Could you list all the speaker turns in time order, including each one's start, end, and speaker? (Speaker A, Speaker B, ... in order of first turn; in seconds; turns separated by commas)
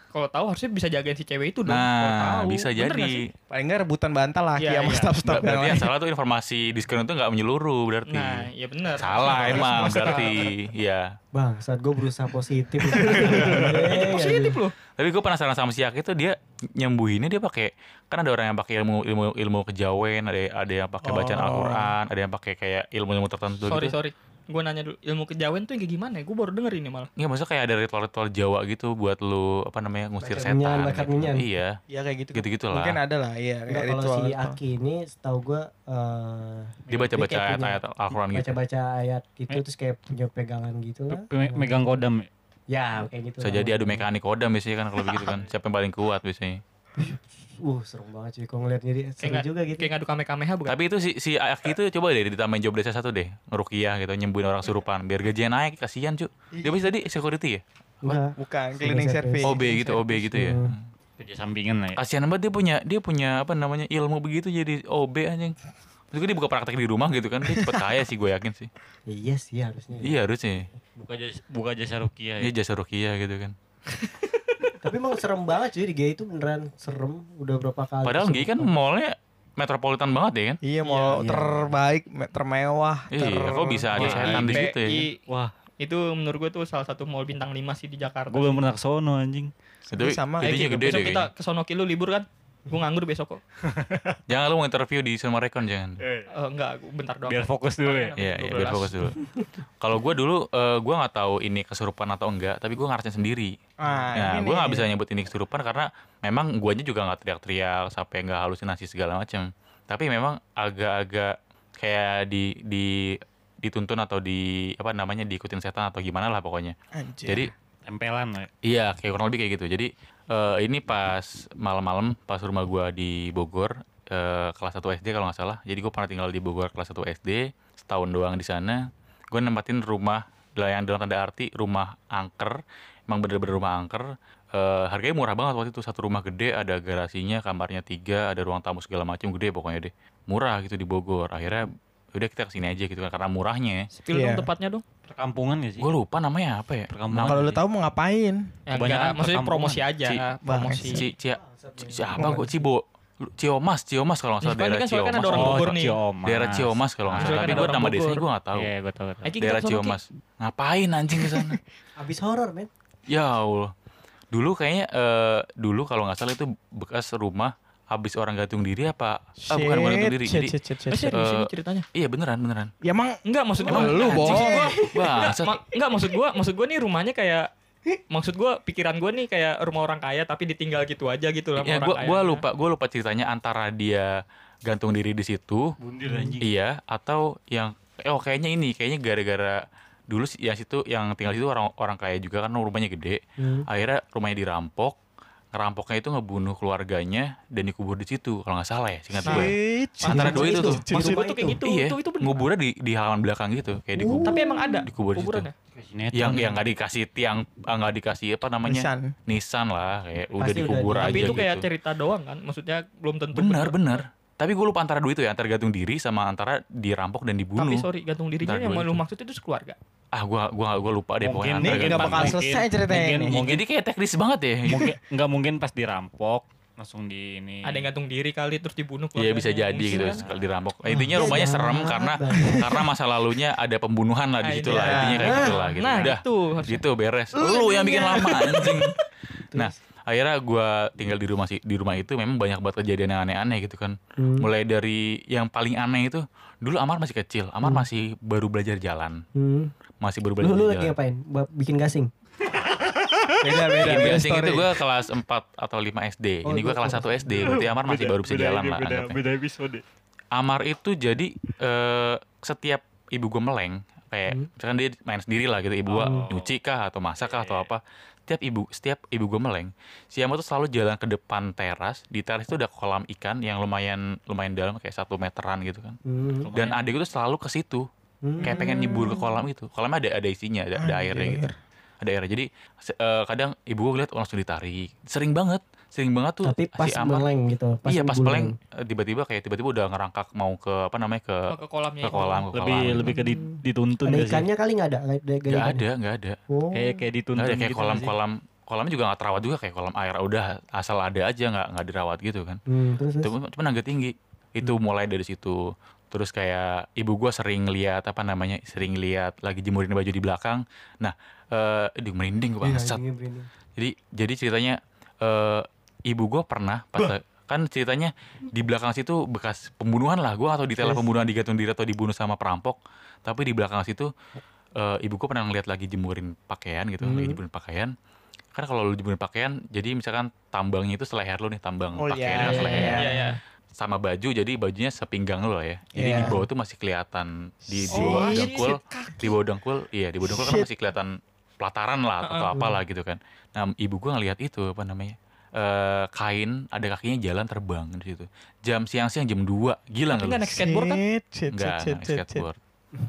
Speaker A: 0.1-3.2, Speaker B: 1.7-3.3, Speaker C: 3.5-5.9, Speaker A: 4.6-5.1, Speaker B: 5.2-11.0, Speaker A: 8.1-10.5, Speaker D: 11.3-14.6, Speaker A: 13.1-14.7, Speaker C: 13.1-13.6, Speaker B: 15.0-23.9, Speaker C: 21.0-22.0, Speaker A: 23.6-27.1, Speaker B: 27.2-31.8, Speaker D: 30.2-31.4, Speaker C: 31.9-34.6, Speaker B: 32.4-33.0, Speaker D: 33.7-37.8, Speaker B: 36.9-38.5, Speaker D: 38.3-41.8, Speaker E: 41.1-42.3, Speaker D: 42.7-44.1, Speaker B: 43.4-46.6, Speaker E: 45.1-45.5, Speaker D: 47.0-49.9, Speaker A: 49.2-50.8, Speaker B: 50.6-57.6, Speaker C: 56.6-56.9, Speaker D: 58.0-60.8, Speaker C: 58.1-59.6, Speaker B: 59.4-60.8, Speaker E: 61.2-62.0, Speaker B: 62.0-65.6, Speaker B: 66.1-68.7, Speaker D: 69.1-70.2, Speaker B: 70.0-70.7, Speaker E: 71.0-72.5, Speaker B: 72.4-73.5, Speaker D: 74.8-78.7, Speaker B: 78.0-80.6, Speaker C: 80.6-84.6, Speaker E: 81.0-81.6, Speaker B: 83.1-85.1, Speaker E: 83.9-84.7, Speaker A: 84.0-85.2, Speaker E: 85.3-85.5, Speaker A: 85.8-88.7, Speaker E: 88.3-89.5, Speaker C: 89.9-91.1, Speaker B: 89.9-91.3, Speaker A: 90.4-93.4, Speaker E: 93.7-94.2, Speaker B: 94.3-96.0, Speaker E: 96.0-96.3, Speaker A: 96.3-99.0, Speaker E: 97.3-98.8, Speaker B: 98.2-99.2, Speaker B: 99.8-103.5, Speaker C: 103.8-104.9, Speaker B: 104.2-116.8, Speaker C: 116.9-117.5, Speaker B: 117.2-117.5, Speaker E: 117.9-118.5, Speaker B: 118.6-143.9, Speaker A: 143.9-144.8, Speaker C: 144.1-144.5, Speaker E: 145.0-145.9, Speaker B: 145.8-147.4, Speaker E: 146.9-147.6, Speaker C: 147.2-148.6, Speaker A: 148.7-151.0, Speaker E: 148.7-149.9, Speaker C: 150.4-151.0, Speaker B: 150.9-158.7, Speaker D: 151.4-152.5, Speaker C: 152.2-152.4, Speaker A: 154.4-156.0, Speaker E: 155.3-157.8, Speaker A: 157.2-158.2, Speaker E: 158.5-159.3, Speaker A: 159.2-160.0, Speaker B: 159.4-161.6, Speaker D: 162.0-162.7, Speaker B: 163.1-163.7, Speaker B: 164.3-172.7, Speaker C: 169.4-171.1, Speaker A: 170.9-171.8, Speaker C: 172.8-174.9, Speaker A: 173.2-177.5, Speaker B: 173.7-175.6, Speaker A: 178.1-182.4, Speaker B: 181.6-184.1, Speaker B: 184.7-185.8, Speaker E: 185.8-186.5, Speaker D: 186.0-186.4, Speaker B: 186.4-195.0, Speaker D: 193.4-193.7, Speaker B: 195.5-199.5, Speaker C: 199.2-201.2, Speaker A: 199.2-202.4, Speaker D: 200.1-201.6, Speaker B: 200.1-200.8, Speaker B: 201.7-205.5, Speaker D: 203.9-204.8, Speaker A: 204.2-205.5, Speaker E: 205.7-206.6, Speaker B: 206.1-211.7, Speaker C: 208.6-209.1, Speaker D: 210.4-211.4, Speaker A: 211.0-214.0, Speaker B: 213.3-217.9, Speaker A: 217.6-219.8, Speaker B: 218.4-219.0, Speaker B: 220.1-222.4, Speaker E: 221.2-223.6, Speaker C: 221.6-223.6, Speaker B: 223.4-224.9, Speaker E: 224.7-227.9, Speaker A: 227.6-230.2, Speaker B: 229.2-239.0, Speaker E: 230.0-230.5, Speaker D: 230.9-232.8, Speaker A: 234.4-236.8, Speaker C: 234.7-235.4, Speaker D: 235.2-235.6, Speaker C: 237.4-238.9, Speaker B: 239.5-249.2, Speaker D: 244.2-244.5, Speaker D: 249.3-249.7, Speaker B: 250.0-250.9, Speaker D: 250.4-252.1, Speaker E: 252.7-253.8, Speaker C: 253.4-254.7, Speaker B: 253.8-259.2, Speaker D: 256.4-257.6, Speaker E: 257.4-259.8, Speaker B: 260.3-276.0, Speaker E: 265.9-266.5, Speaker D: 266.0-266.2, Speaker E: 267.2-267.7, Speaker D: 276.0-276.5, Speaker E: 276.4-276.8, Speaker B: 276.5-277.9, Speaker D: 278.2-279.2, Speaker B: 278.4-281.4, Speaker C: 278.5-279.0, Speaker C: 280.8-281.6, Speaker B: 282.0-287.2, Speaker D: 286.4-288.5, Speaker B: 287.9-291.5, Speaker A: 291.5-292.5, Speaker B: 292.0-293.2, Speaker E: 292.5-294.5, Speaker D: 293.0-293.5, Speaker D: 294.0-295.9, Speaker B: 295.5-296.4, Speaker D: 296.5-297.1, Speaker E: 296.7-298.1, Speaker B: 297.4-302.6, Speaker D: 302.7-303.3, Speaker B: 303.2-313.0, Speaker D: 312.6-313.5, Speaker B: 313.8-324.1, Speaker D: 320.8-321.0, Speaker B: 324.8-327.9, Speaker D: 327.0-327.4, Speaker B: 328.5-333.1, Speaker C: 332.0-333.1, Speaker D: 332.4-333.2, Speaker A: 332.9-333.4, Speaker B: 333.8-350.5, Speaker C: 335.9-336.4, Speaker D: 336.1-336.5, Speaker A: 337.8-339.4, Speaker C: 337.9-338.6, Speaker C: 340.2-340.7, Speaker A: 342.2-342.5, Speaker D: 342.5-342.8, Speaker A: 350.1-351.0, Speaker C: 350.5-352.4, Speaker B: 351.5-352.6